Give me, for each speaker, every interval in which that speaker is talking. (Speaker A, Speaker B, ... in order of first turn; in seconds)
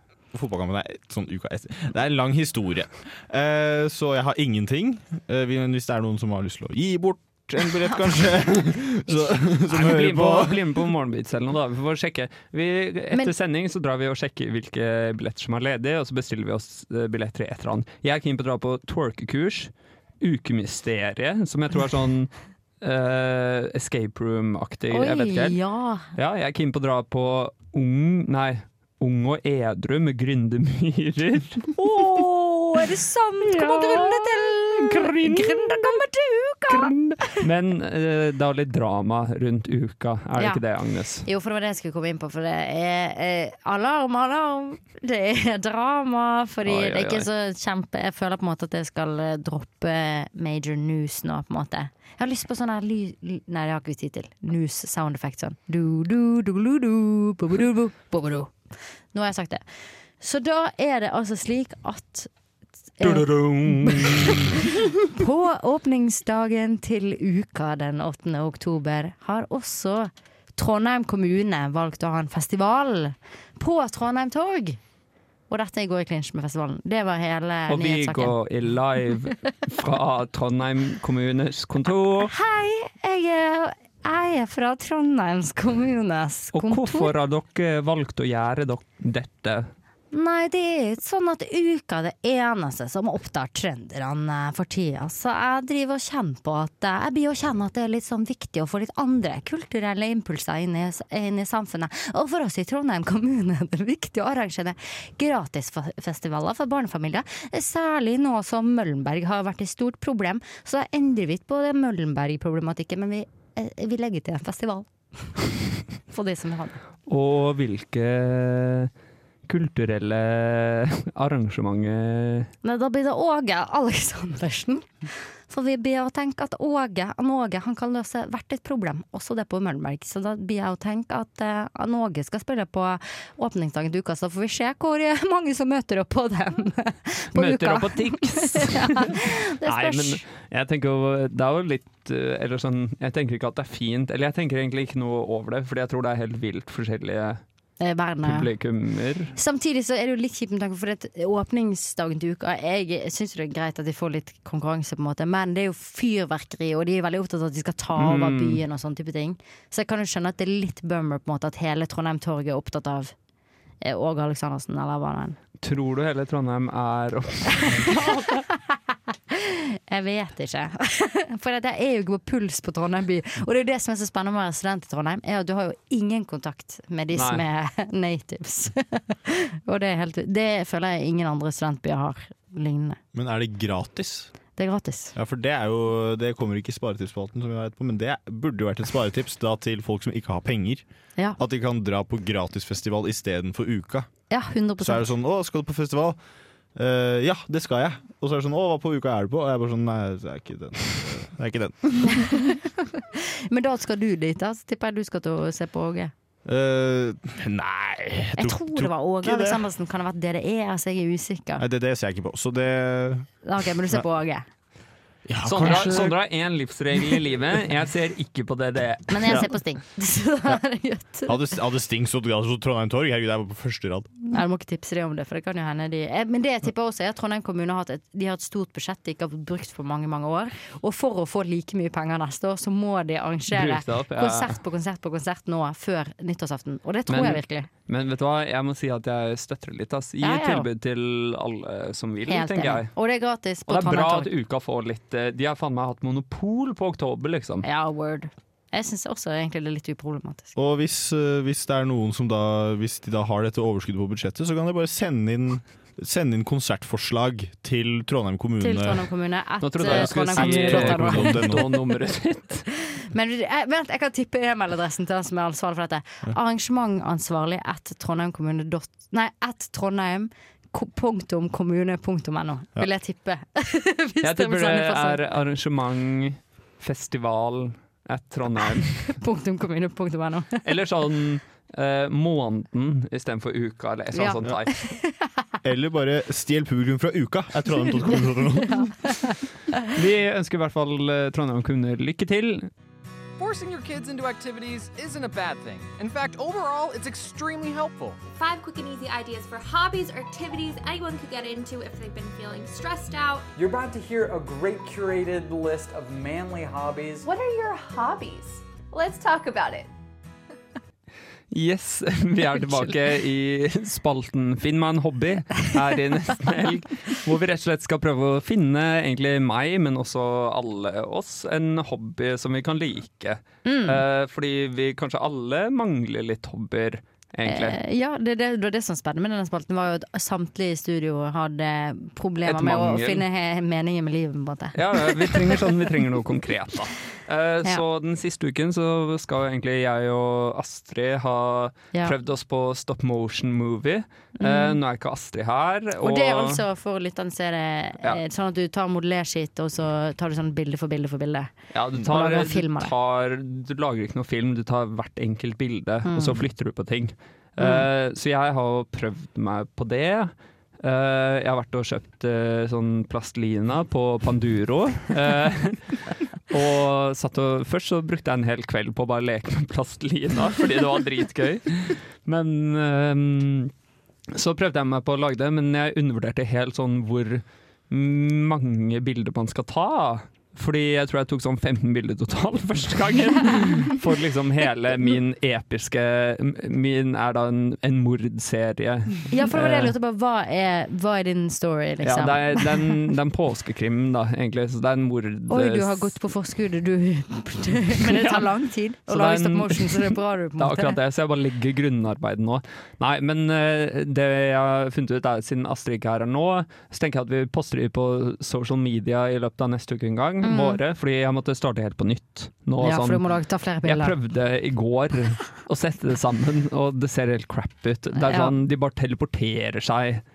Speaker A: 0.3-10.8, 183.1-184.3, 185.2-190.8, 191.4-194.1, 194.8-196.2, 196.8-202.3, 206.4-209.6, 211.6-213.3, 215.2-216.2, 221.3-224.1, 250.6-259.1, 259.8-261.6, 285.6-289.1
Speaker B: 9.7-25.6, 26.1-32.8, 33.4-36.0, 36.7-41.2, 46.6-47.3, 63.0-64.6, 77.7-82.3, 86.5-89.7, 117.1-118.9, 119.5-122.5, 137.3-147.4, 148.2-149.3, 157.9-158.6, 165.6-168.0, 177.1-177.4, 215.4-219.4, 233.5-234.6, 237.1-242.9, 243.7-247.7, 259.6-262.6, 274.2-279.2, 280.6-284.7, 289.9-292.7, 311.5-327.8, 332.4-333.2, 334.7-346.6, 351.7-373.7, 374.3-389.9, 392.0-396.1, 398.0-398.5, 399.1-413.2, 413.8-420.2
Speaker C: 24.9-26.1, 31.8-37.4, 41.2-58.5, 59.1-59.6, 60.2-62.3, 63.0-74.8, 75.5-78.3, 82.2-87.1, 90.1-115.3, 116.1-116.8, 122.6-140.2, 147.8-148.5, 149.3-163.1, 163.8-165.4, 167.6-168.8, 169.3-183.0, 184.6-185.1, 194.3-195.0, 202.1-206.1, 208.3-211.6, 213.4-214.4, 219.1-221.4, 224.3-237.7, 240.2-240.7, 242.3-244.3, 247.6-250.5, 258.6-261.6, 263.1-275.2, 279.1-280.6, 284.1-285.3, 287.8-289.8, 323.6-324.0, 327.4-335.7, 344.4-344.8, 346.0-351.5, 352.0-352.9, 356.0-356.4, 357.6-357.9, 389.3-393.0, 395.5-400.9, 410.4-410.8, 412.8-414.1, 418.1-418.5
Speaker D: 293.4-298.2
Speaker E: 298.3-303.5, 307.2-309.9
Speaker F: 303.6-307.2